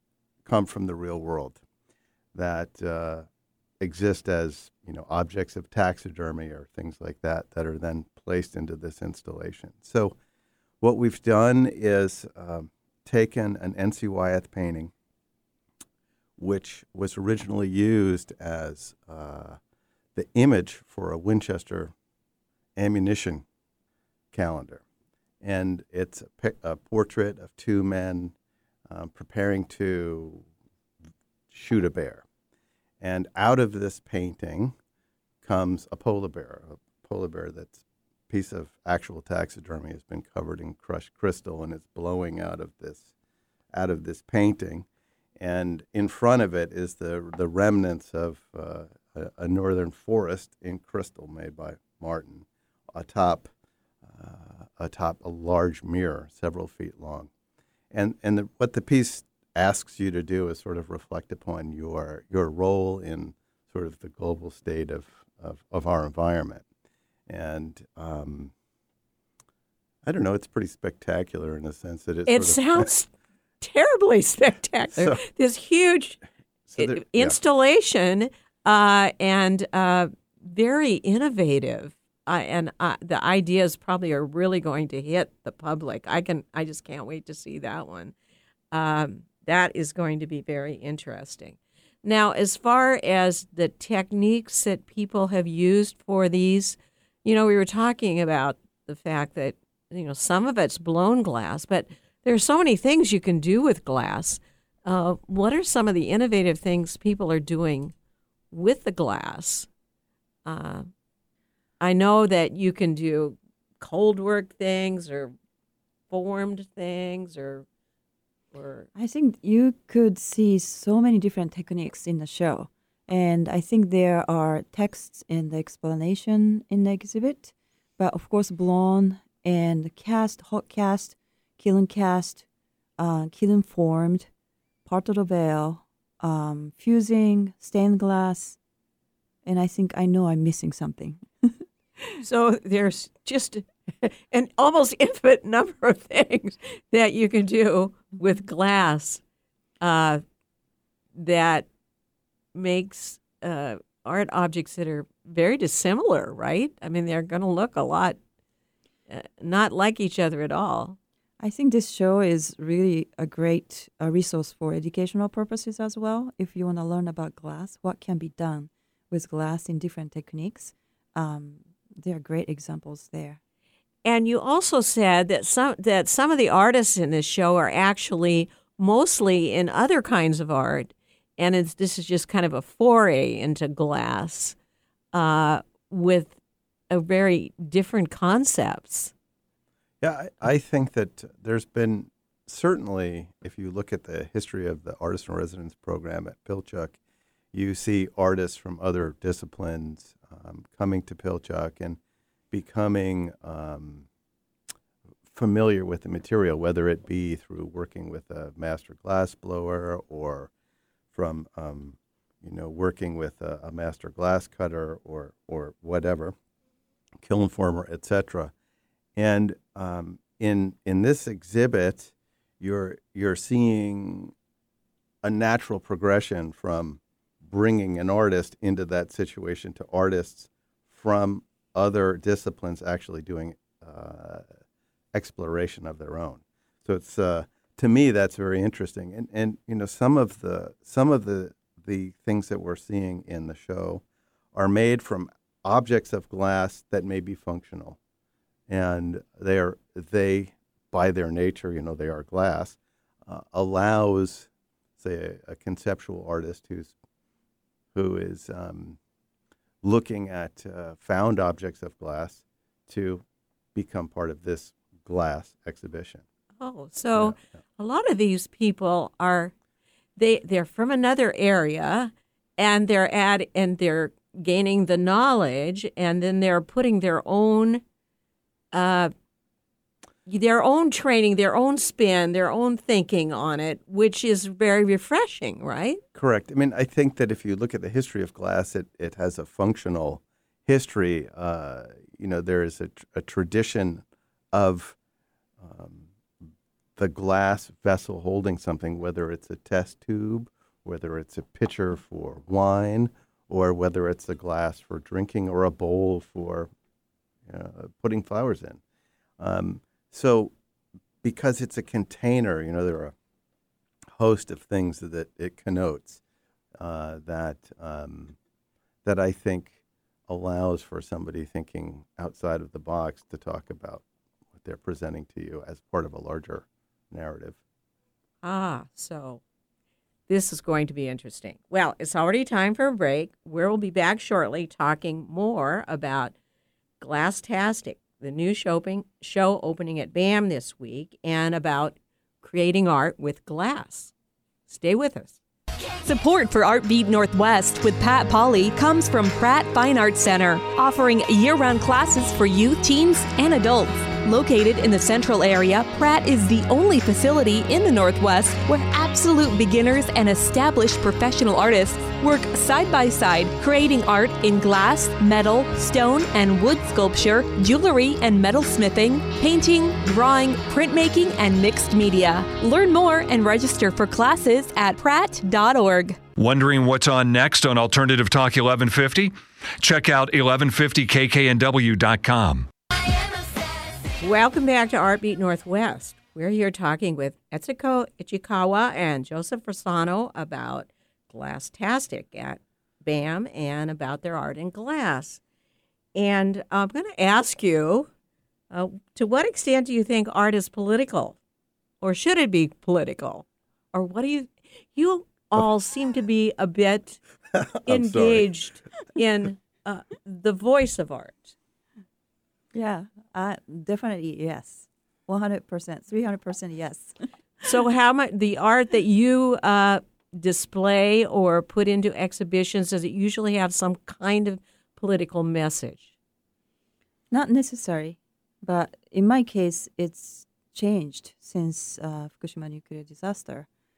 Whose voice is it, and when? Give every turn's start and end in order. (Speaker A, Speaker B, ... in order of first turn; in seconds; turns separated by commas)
Speaker A: 0.5-1.6, Speaker A: 2.3-3.3, Speaker A: 3.8-10.2, Speaker A: 10.8-14.9, Speaker A: 16.4-19.6, Speaker A: 20.1-21.9, Speaker A: 22.8-23.4, Speaker A: 24.3-24.8, Speaker A: 25.4-28.3, Speaker A: 28.9-30.4, Speaker A: 31.5-32.2, Speaker A: 33.0-34.7, Speaker A: 35.4-37.8, Speaker A: 38.3-43.1, Speaker A: 43.7-44.9, Speaker A: 45.4-53.5, Speaker A: 54.1-57.3, Speaker A: 57.9-66.7, Speaker A: 67.3-68.5, Speaker A: 70.0-72.9, Speaker B: 72.3-76.2, Speaker A: 76.7-77.4, Speaker B: 76.8-88.1, Speaker B: 88.7-107.9, Speaker B: 108.5-109.7, Speaker B: 110.5-110.9, Speaker B: 111.8-115.3, Speaker B: 116.1-117.7, Speaker B: 118.5-118.9, Speaker C: 119.0-132.4, Speaker C: 133.0-134.3, Speaker C: 134.9-138.6, Speaker C: 139.4-142.1, Speaker B: 142.2-149.2, Speaker B: 149.8-150.2, Speaker B: 151.2-151.7, Speaker B: 152.5-158.2, Speaker B: 159.1-161.0, Speaker C: 161.4-173.4, Speaker B: 174.1-184.6, Speaker B: 185.1-186.3, Speaker B: 186.9-189.1, Speaker A: 190.0-197.0, Speaker A: 197.5-202.0, Speaker A: 202.5-204.1, Speaker A: 205.3-210.5, Speaker A: 211.1-216.3, Speaker A: 217.2-218.5, Speaker A: 219.2-224.3, Speaker A: 225.2-234.5, Speaker A: 235.1-244.0, Speaker A: 244.6-248.0, Speaker A: 248.7-256.9, Speaker A: 257.9-259.0, Speaker A: 259.8-263.2, Speaker A: 263.8-266.2, Speaker B: 266.6-269.5, Speaker B: 270.2-277.8, Speaker B: 278.7-279.1, Speaker B: 280.3-286.0, Speaker A: 286.1-295.0, Speaker A: 295.6-296.1, Speaker A: 297.0-306.7, Speaker A: 307.5-308.8, Speaker A: 309.4-310.5, Speaker A: 311.2-313.1, Speaker A: 314.2-316.2, Speaker A: 316.8-318.4, Speaker A: 319.1-319.8, Speaker A: 320.3-324.0, Speaker A: 324.6-327.6, Speaker B: 328.4-329.4, Speaker B: 330.3-336.3, Speaker B: 337.0-344.1, Speaker B: 344.7-345.4, Speaker D: 346.0-376.2, Speaker E: 376.4-382.7, Speaker B: 384.2-395.4, Speaker B: 396.1-398.1, Speaker B: 398.7-401.4, Speaker B: 402.0-407.2, Speaker A: 407.5-408.5, Speaker B: 407.9-411.6, Speaker C: 412.7-417.1, Speaker B: 417.6-426.1, Speaker C: 427.3-433.7